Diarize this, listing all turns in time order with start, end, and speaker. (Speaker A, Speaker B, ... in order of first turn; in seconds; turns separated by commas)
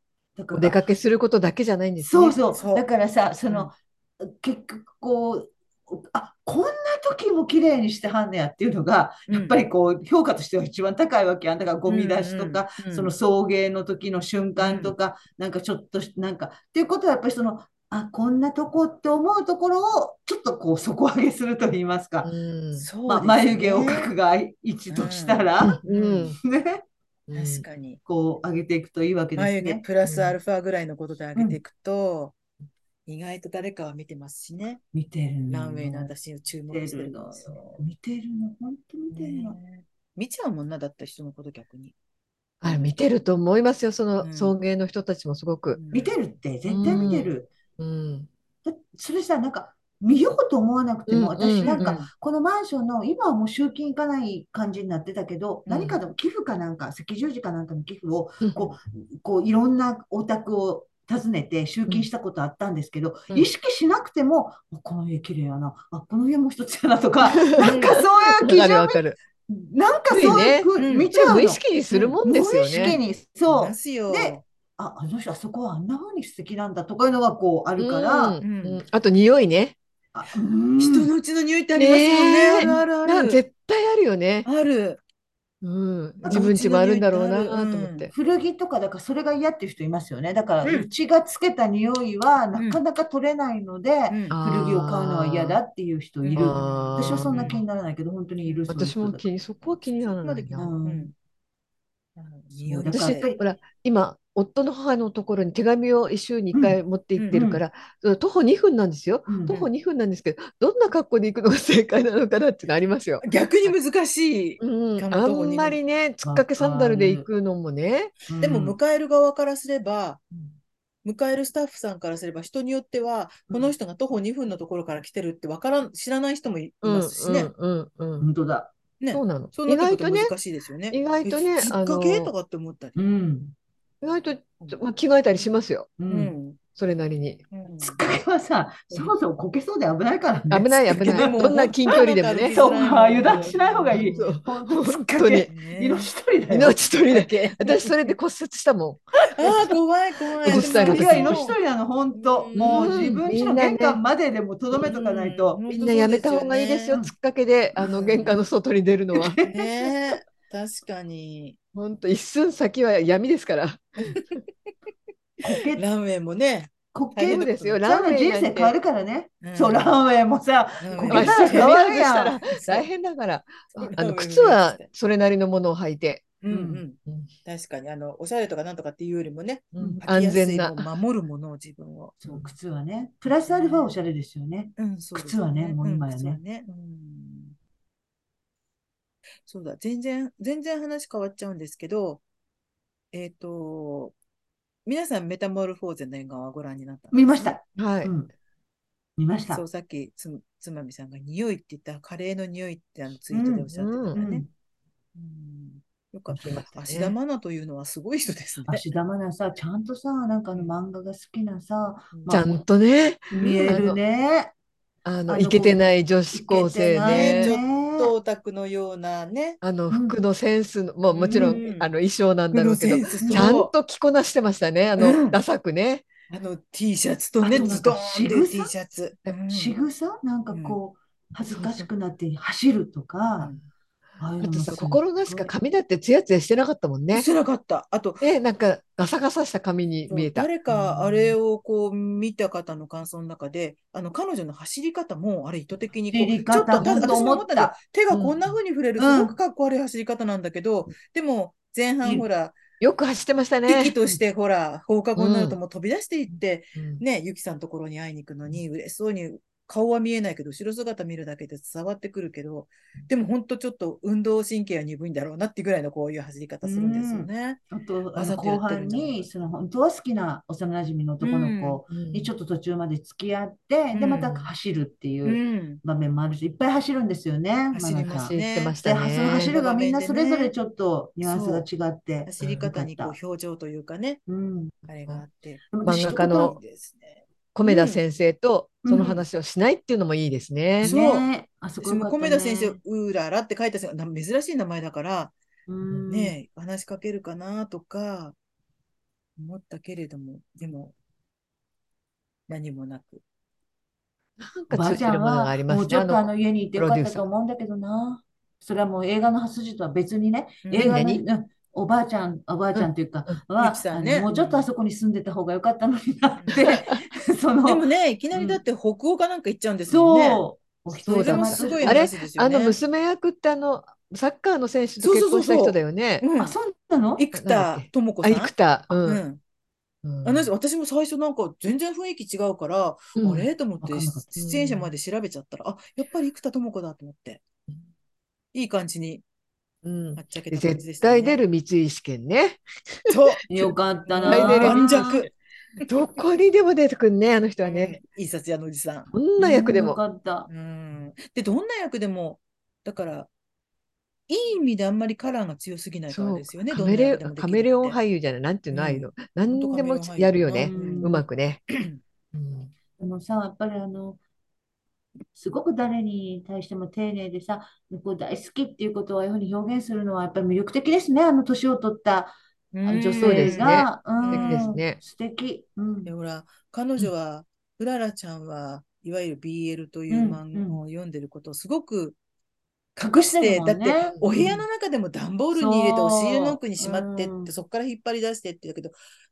Speaker A: 0.4-0.8, Speaker B: 0.5-2.4, Speaker A: 2.0-22.3, Speaker C: 2.5-2.8, Speaker C: 9.3-9.6, Speaker C: 11.9-13.1, Speaker C: 14.6-14.9, Speaker B: 22.2-22.9, Speaker C: 22.8-24.1, Speaker A: 23.1-25.8, Speaker C: 24.9-26.4, Speaker B: 25.6-26.4, Speaker A: 26.4-26.8, Speaker B: 27.3-27.6, Speaker C: 27.3-28.0, Speaker A: 28.1-29.9, Speaker C: 29.4-32.4, Speaker B: 30.1-30.3, Speaker C: 33.1-34.8, Speaker A: 34.9-36.1, Speaker C: 35.5-37.8, Speaker A: 36.7-39.6, Speaker C: 39.1-41.9, Speaker B: 42.6-45.8, Speaker C: 44.2-44.5, Speaker C: 45.8-46.1, Speaker A: 45.9-47.5, Speaker B: 46.7-48.3, Speaker A: 48.6-71.6, Speaker B: 51.1-52.0, Speaker C: 51.6-52.1, Speaker C: 55.7-56.0, Speaker B: 58.4-58.7, Speaker B: 67.3-69.2, Speaker C: 67.6-68.0, Speaker B: 70.1-73.0, Speaker C: 70.2-71.2, Speaker C: 71.9-72.2, Speaker A: 72.2-78.4, Speaker C: 72.8-74.4, Speaker B: 77.8-79.8, Speaker C: 78.4-78.8, Speaker A: 80.1-81.1, Speaker C: 80.8-83.4, Speaker B: 81.8-84.5, Speaker A: 82.5-82.8, Speaker C: 84.5-85.0, Speaker B: 85.6-88.1, Speaker A: 86.2-86.5, Speaker C: 86.2-88.1, Speaker A: 88.1-99.2, Speaker C: 90.6-90.9, Speaker C: 92.6-92.8, Speaker C: 94.1-94.4, Speaker B: 94.3-95.6, Speaker C: 96.2-97.6, Speaker B: 96.4-97.6, Speaker B: 98.7-100.7, Speaker C: 100.0-101.1, Speaker A: 100.6-101.1, Speaker C: 102.2-103.3, Speaker A: 102.6-103.4, Speaker B: 102.8-113.7, Speaker A: 106.5-106.8, Speaker C: 107.2-107.4, Speaker A: 107.3-107.6, Speaker A: 109.3-109.6, Speaker C: 113.2-115.8, Speaker B: 114.6-118.1, Speaker A: 116.2-117.3, Speaker A: 118.3-118.8, Speaker C: 118.4-120.2, Speaker C: 121.0-127.5, Speaker B: 126.8-128.3, Speaker A: 128.2-128.7, Speaker C: 129.0-133.0, Speaker B: 129.1-130.3, Speaker B: 130.9-132.3, Speaker A: 133.0-133.5, Speaker B: 134.0-135.9, Speaker A: 136.0-136.3, Speaker C: 136.1-136.6, Speaker B: 136.8-137.4, Speaker C: 137.5-138.0, Speaker A: 137.8-141.4, Speaker B: 140.5-142.6, Speaker C: 140.8-144.4, Speaker A: 142.5-146.8, Speaker B: 143.2-145.5, Speaker C: 145.5-146.1, Speaker B: 146.5-149.8, Speaker C: 147.0-148.2, Speaker C: 149.4-151.6, Speaker B: 150.4-151.5, Speaker A: 150.5-155.6, Speaker C: 152.2-153.1, Speaker B: 152.6-154.0, Speaker C: 154.8-157.0, Speaker B: 155.7-159.4, Speaker C: 157.8-158.4, Speaker A: 159.1-159.7, Speaker C: 159.4-161.6, Speaker B: 161.7-164.2, Speaker C: 164.0-164.4, Speaker A: 165.4-165.8, Speaker C: 165.8-167.8, Speaker A: 166.9-172.6, Speaker B: 167.3-168.7, Speaker C: 169.4-170.0, Speaker C: 170.8-171.7, Speaker B: 171.0-176.3, Speaker C: 172.5-172.9, Speaker C: 173.8-174.8, Speaker C: 176.4-182.2, Speaker A: 176.5-176.8, Speaker B: 179.8-180.9, Speaker A: 182.2-186.4, Speaker C: 183.3-184.0, Speaker C: 184.8-187.6, Speaker C: 189.5-192.2, Speaker C: 193.1-194.1, Speaker C: 194.8-197.6, Speaker A: 197.1-198.3, Speaker B: 197.8-198.1, Speaker A: 199.2-199.6, Speaker C: 199.5-204.4, Speaker A: 203.3-204.5, Speaker B: 203.7-204.2, Speaker C: 205.2-208.9, Speaker B: 206.3-207.2, Speaker A: 208.7-212.6, Speaker C: 212.1-212.4, Speaker B: 212.3-214.0, Speaker A: 213.3-214.5, Speaker C: 213.4-213.9, Speaker B: 215.1-217.6, Speaker A: 215.3-218.1, Speaker C: 217.0-219.6, Speaker B: 219.6-226.1, Speaker A: 219.9-220.2, Speaker C: 221.1-221.9, Speaker A: 221.3-221.6, Speaker C: 222.5-223.7, Speaker A: 223.2-223.5, Speaker C: 225.0-225.4, Speaker C: 226.3-229.8, Speaker A: 227.4-228.7, Speaker B: 227.5-227.8, Speaker A: 229.5-233.5, Speaker C: 230.5-230.8, Speaker B: 231.6-231.8, Speaker A: 234.2-235.5, Speaker B: 234.4-237.3, Speaker C: 237.1-238.2, Speaker B: 238.2-240.5, Speaker C: 240.1-252.6, Speaker A: 240.7-241.4, Speaker A: 246.1-247.7, Speaker B: 246.8-247.2, Speaker B: 248.1-248.4, Speaker A: 249.0-249.3, Speaker B: 252.8-253.9, Speaker C: 253.7-267.6, Speaker B: 255.2-255.6, Speaker B: 256.8-257.0, Speaker A: 266.6-283.1, Speaker C: 268.1-269.3, Speaker C: 271.2-271.8, Speaker B: 271.9-272.3, Speaker C: 273.9-274.4, Speaker C: 275.2-275.8, Speaker C: 277.7-280.5, Speaker B: 278.1-279.6, Speaker C: 281.2-281.7, Speaker C: 282.2-284.2, Speaker A: 284.3-284.7, Speaker C: 284.9-288.0, Speaker A: 285.7-286.6, Speaker B: 285.8-286.6, Speaker B: 287.6-290.9, Speaker A: 288.8-289.2, Speaker C: 290.8-291.3, Speaker A: 290.8-292.8, Speaker C: 291.8-295.3, Speaker A: 295.7-296.4, Speaker C: 296.1-298.4, Speaker C: 299.4-300.9, Speaker C: 302.5-303.2, Speaker B: 304.4-307.2, Speaker A: 304.7-318.6, Speaker C: 310.6-311.0, Speaker B: 310.8-311.2, Speaker B: 312.8-313.4, Speaker C: 313.6-314.7, Speaker C: 316.4-316.9, Speaker C: 317.7-320.4, Speaker A: 319.9-322.0, Speaker B: 320.9-326.2, Speaker C: 321.0-322.8, Speaker C: 325.0-326.6, Speaker A: 326.4-327.2, Speaker C: 327.2-329.4, Speaker B: 327.4-329.2, Speaker B: 330.0-330.5, Speaker C: 330.2-337.4, Speaker B: 333.2-333.5, Speaker A: 333.8-334.3, Speaker B: 334.4-334.9, Speaker C: 338.5-339.2, Speaker B: 339.8-343.1, Speaker C: 340.2-341.4, Speaker C: 343.1-343.6, Speaker A: 343.5-345.3, Speaker C: 344.1-345.3, Speaker B: 344.2-345.3, Speaker B: 345.9-348.0, Speaker C: 347.6-349.1, Speaker B: 349.1-350.0, Speaker A: 349.4-350.5, Speaker C: 350.5-353.3, Speaker C: 354.3-358.0, Speaker B: 356.1-361.6, Speaker C: 358.7-361.1, Speaker A: 360.6-361.2, Speaker C: 361.7-362.0, Speaker B: 362.3-362.7, Speaker A: 363.0-364.2, Speaker A: 365.3-376.1, Speaker C: 372.7-374.7, Speaker B: 373.2-375.0, Speaker C: 376.1-382.2, Speaker A: 380.1-380.8, Speaker A: 383.0-384.6, Speaker C: 383.4-389.0, Speaker A: 385.5-387.5